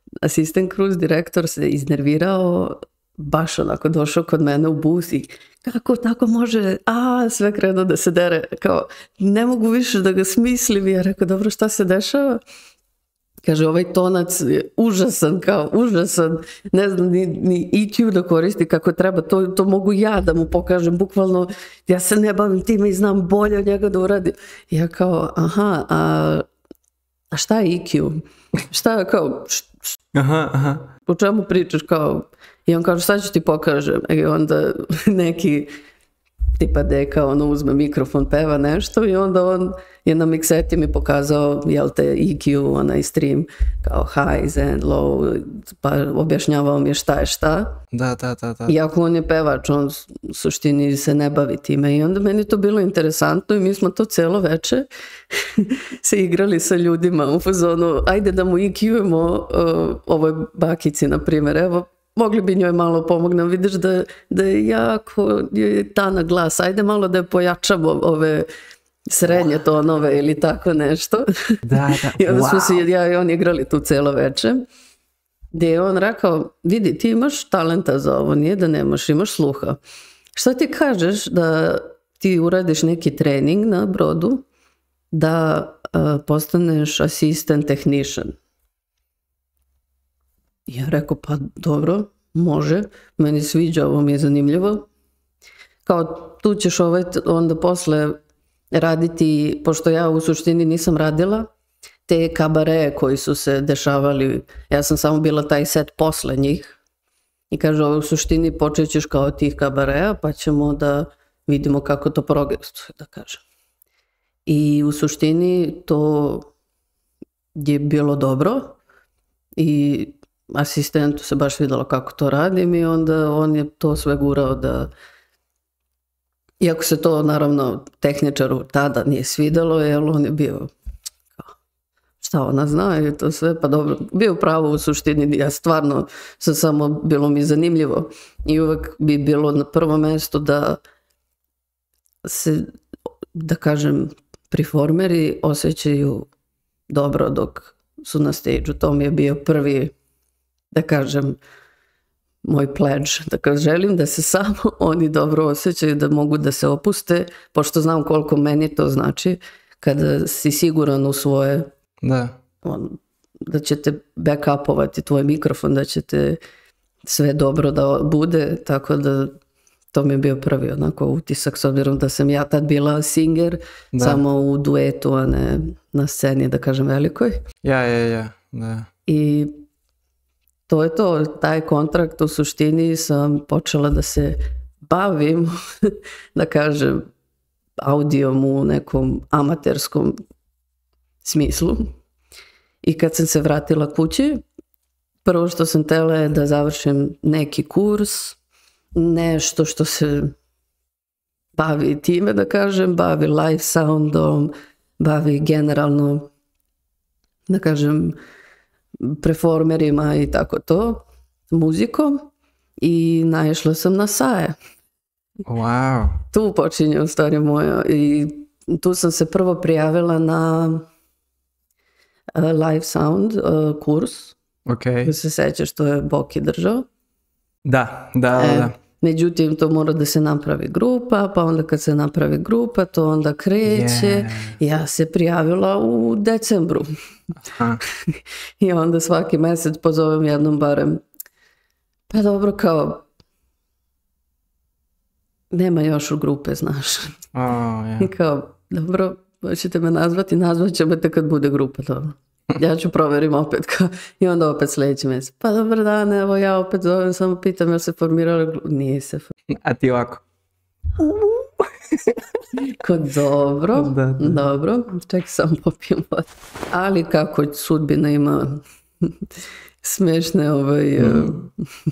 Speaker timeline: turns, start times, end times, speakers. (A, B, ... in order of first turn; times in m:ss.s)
0:00.2-0:12.4 A
0:13.4-0:26.4 A
0:27.3-0:29.8 A
0:30.1-0:30.9 B
0:31.0-0:35.7 A
0:36.6-0:47.8 A
0:47.9-0:48.7 B
0:48.7-1:08.5 A
1:09.1-1:14.6 A
1:11.6-1:12.8 B
1:15.5-1:19.8 A
1:20.3-1:24.4 A
1:25.1-1:28.4 A
1:30.7-1:34.9 A
1:35.8-1:38.2 A
1:38.7-1:41.5 A
1:42.1-1:46.8 A
1:47.5-1:53.4 A
1:54.5-1:56.5 A
1:57.6-1:58.8 A
1:59.6-2:04.9 A
2:06.6-2:10.7 A
2:12.2-2:20.8 A
2:22.2-2:22.7 A
2:23.3-2:26.3 A
2:26.9-2:29.9 A
2:30.7-2:31.4 A
2:32.4-2:41.7 A
2:42.0-2:42.4 B
2:42.6-2:46.4 A
2:47.0-2:49.4 A
2:49.9-2:57.4 A
2:53.9-2:54.2 B
2:57.6-2:58.9 B
2:59.1-2:59.6 A
3:00.7-3:07.1 A
3:07.8-3:10.2 A
3:11.2-3:12.0 A
3:12.8-3:14.4 A
3:15.2-3:18.4 A
3:19.0-3:20.3 A
3:21.5-3:26.3 A
3:27.5-3:28.2 A
3:29.0-3:32.3 A
3:32.8-3:34.5 A
3:35.4-3:36.2 B
3:36.3-3:40.9 A
3:42.4-3:44.4 A
3:44.6-3:45.1 B
3:45.0-3:46.8 A
3:47.6-3:48.7 B
3:48.3-3:56.8 A
3:53.6-3:54.6 B
3:57.5-3:57.8 B
3:58.1-4:01.0 A
4:02.1-4:03.0 A
4:05.5-4:07.2 A
4:07.3-4:08.1 B
4:08.0-4:19.3 A
4:19.5-4:20.2 B
4:21.0-4:22.2 B
4:22.6-4:29.1 A
4:23.7-4:24.4 B
4:29.8-4:31.5 A
4:31.0-4:31.4 B